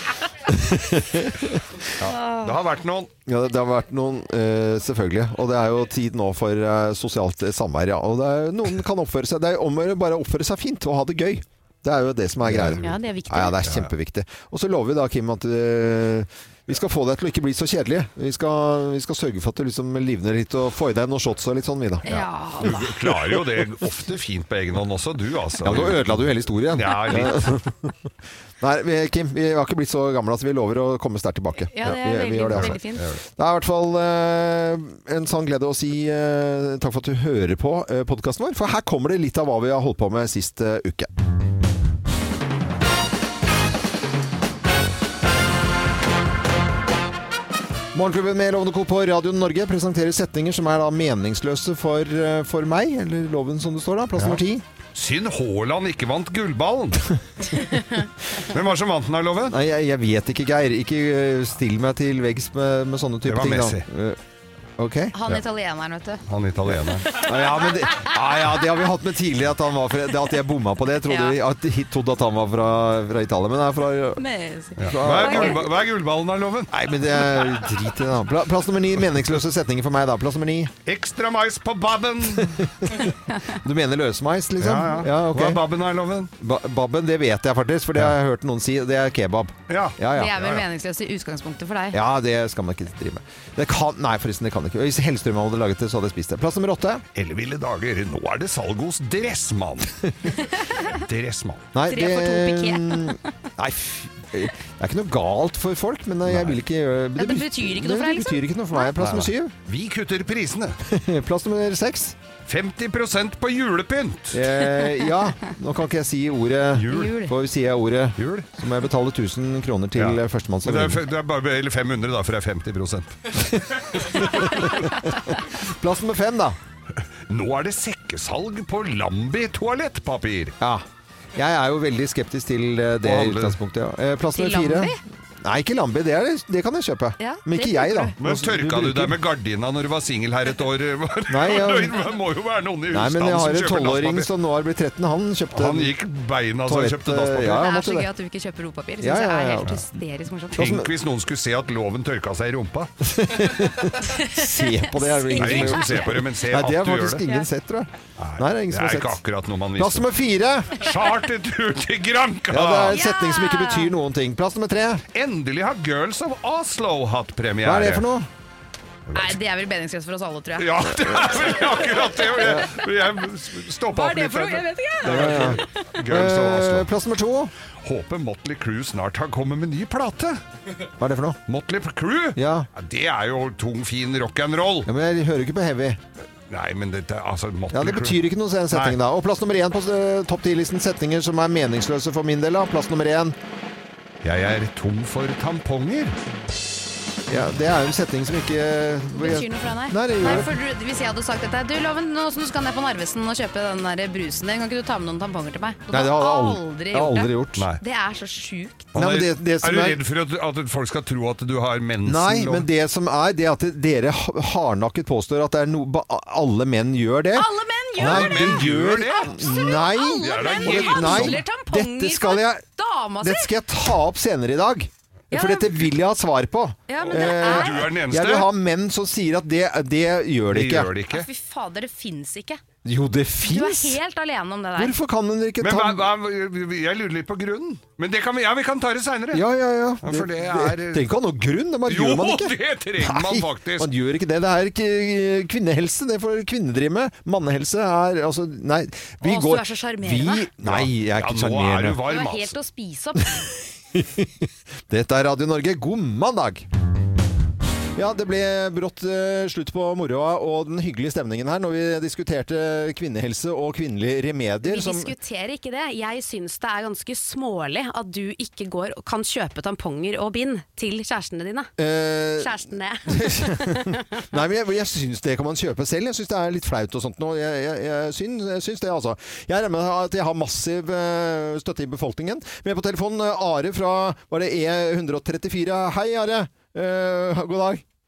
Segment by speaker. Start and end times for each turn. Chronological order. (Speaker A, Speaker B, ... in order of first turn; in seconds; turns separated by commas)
Speaker A: 0.5-1.6, Speaker B: 2.0-3.1, Speaker C: 2.1-2.5, Speaker A: 3.2-22.0, Speaker B: 12.4-12.8, Speaker C: 12.8-13.6, Speaker B: 13.6-13.9, Speaker C: 22.0-23.0, Speaker B: 22.1-27.5, Speaker A: 25.6-27.9, Speaker A: 28.6-32.8, Speaker C: 31.5-33.0, Speaker B: 32.5-33.2, Speaker A: 33.4-41.1, Speaker A: 47.9-54.6, Speaker B: 54.9-57.1, Speaker B: 58.3-59.6, Speaker A: 59.5-64.2, Speaker B: 63.2-63.8, Speaker A: 64.8-65.1, Speaker C: 65.1-66.2, Speaker B: 66.3-67.2, Speaker A: 67.1-74.2, Speaker C: 67.2-68.1, Speaker C: 71.1-71.4, Speaker C: 74.2-75.6, Speaker B: 74.8-76.7, Speaker A: 74.8-75.7, Speaker A: 76.7-80.7, Speaker B: 80.8-82.6, Speaker A: 82.4-82.9, Speaker A: 83.5-85.6, Speaker B: 84.6-86.3, Speaker A: 86.4-90.4, Speaker B: 89.7-90.6, Speaker C: 90.1-92.0, Speaker A: 91.9-97.0, Speaker B: 97.1-100.0, Speaker C: 100.5-100.9, Speaker B: 100.9-101.7, Speaker A: 101.7-109.5, Speaker C: 101.9-103.2, Speaker B: 106.3-106.6, Speaker C: 107.2-108.9, Speaker B: 109.0-110.8, Speaker A: 110.8-112.2, Speaker B: 112.5-114.5, Speaker A: 114.3-121.0, Speaker B: 116.8-117.1, Speaker C: 116.9-117.3, Speaker B: 118.2-118.5, Speaker B: 120.0-123.2, Speaker A: 123.7-124.7, Speaker C: 124.5-124.9, Speaker A: 125.6-126.6, Speaker B: 127.3-130.5, Speaker A: 130.6-130.8, Speaker A: 131.4-139.2, Speaker B: 133.0-133.6, Speaker C: 134.3-135.0, Speaker C: 137.2-138.1, Speaker B: 138.2-144.3, Speaker A: 141.3-142.0, Speaker A: 142.9-145.9, Speaker B: 145.5-147.6, Speaker A: 146.7-148.1, Speaker C: 147.5-150.8, Speaker A: 149.0-149.8, Speaker A: 150.6-150.9, Speaker B: 150.6-152.9, Speaker A: 153.0-159.2, Speaker C: 154.0-156.1, Speaker B: 155.4-157.2, Speaker B: 158.2-160.1, Speaker A: 159.8-160.8, Speaker B: 160.8-163.0, Speaker A: 162.5-165.0, Speaker C: 162.9-163.9, Speaker B: 165.1-168.0, Speaker A: 167.6-168.3, Speaker B: 169.1-169.4, Speaker C: 169.1-171.7, Speaker B: 170.6-176.9, Speaker A: 172.4-172.7, Speaker C: 173.9-175.8, Speaker A: 175.0-177.5, Speaker B: 177.8-180.4, Speaker A: 181.0-181.4, Speaker B: 181.5-184.9, Speaker A: 182.4-182.7, Speaker A: 184.9-186.0, Speaker B: 186.5-188.2, Speaker A: 187.7-193.4, Speaker B: 188.7-189.0, Speaker B: 194.2-196.1, Speaker A: 197.3-200.5, Speaker C: 199.1-208.9, Speaker A: 205.9-207.7, Speaker A: 208.9-210.0, Speaker B: 208.9-212.7, Speaker A: 212.0-222.6, Speaker C: 217.3-218.6, Speaker B: 218.0-219.4, Speaker C: 219.1-223.5, Speaker B: 220.2-221.4, Speaker A: 223.2-230.9, Speaker C: 225.3-225.8, Speaker C: 226.9-227.9, Speaker B: 227.1-228.5, Speaker B: 230.5-231.3, Speaker C: 231.1-232.6, Speaker A: 232.8-234.0, Speaker C: 233.4-234.9, Speaker A: 234.8-236.1, Speaker B: 235.6-239.4, Speaker A: 239.3-252.0, Speaker B: 240.0-241.1, Speaker B: 241.9-243.9, Speaker C: 249.2-250.4, Speaker B: 250.6-252.5, Speaker C: 252.1-253.3, Speaker A: 253.4-256.6, Speaker A: 257.9-265.1, Speaker C: 264.6-271.7, Speaker A: 271.8-287.8, Speaker C: 272.4-274.2